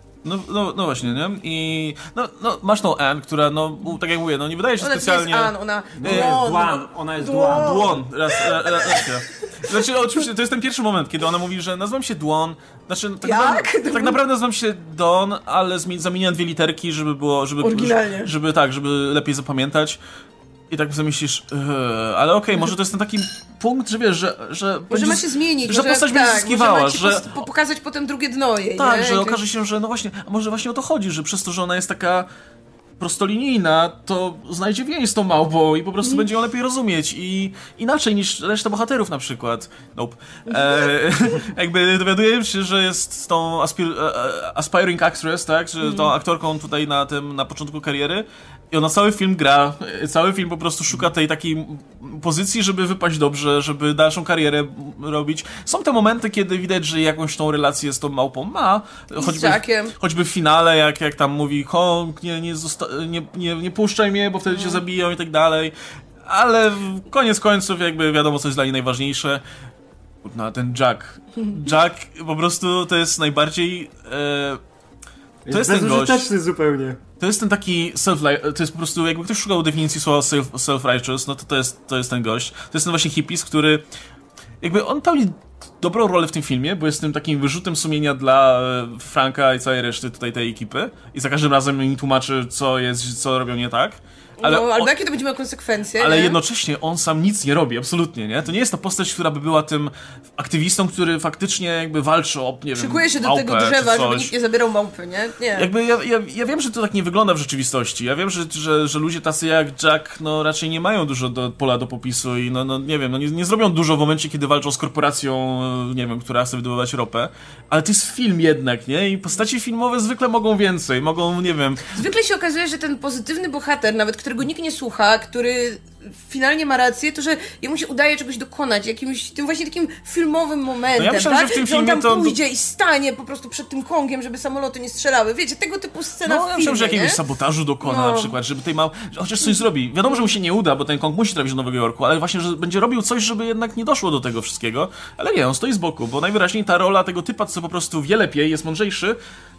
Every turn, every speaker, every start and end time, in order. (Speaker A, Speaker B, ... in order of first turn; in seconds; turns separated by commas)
Speaker A: 0.2-6.4, Speaker B: 4.8-9.7, Speaker C: 6.0-7.9, Speaker A: 7.5-20.0, Speaker B: 13.2-14.2, Speaker B: 17.6-18.3, Speaker A: 20.7-27.5, Speaker B: 24.9-29.4, Speaker A: 28.8-32.3, Speaker A: 33.0-69.4, Speaker B: 45.8-46.1, Speaker B: 59.2-59.9, Speaker B: 64.5-64.8, Speaker A: 70.2-74.6, Speaker C: 75.4-77.0, Speaker A: 75.5-76.2, Speaker A: 77.2-83.8, Speaker A: 84.6-94.9, Speaker B: 94.4-96.4, Speaker A: 96.0-104.3, Speaker B: 102.8-105.7, Speaker A: 105.5-121.9, Speaker B: 121.9-137.2, Speaker A: 131.0-132.3, Speaker A: 136.3-149.2, Speaker B: 137.8-138.3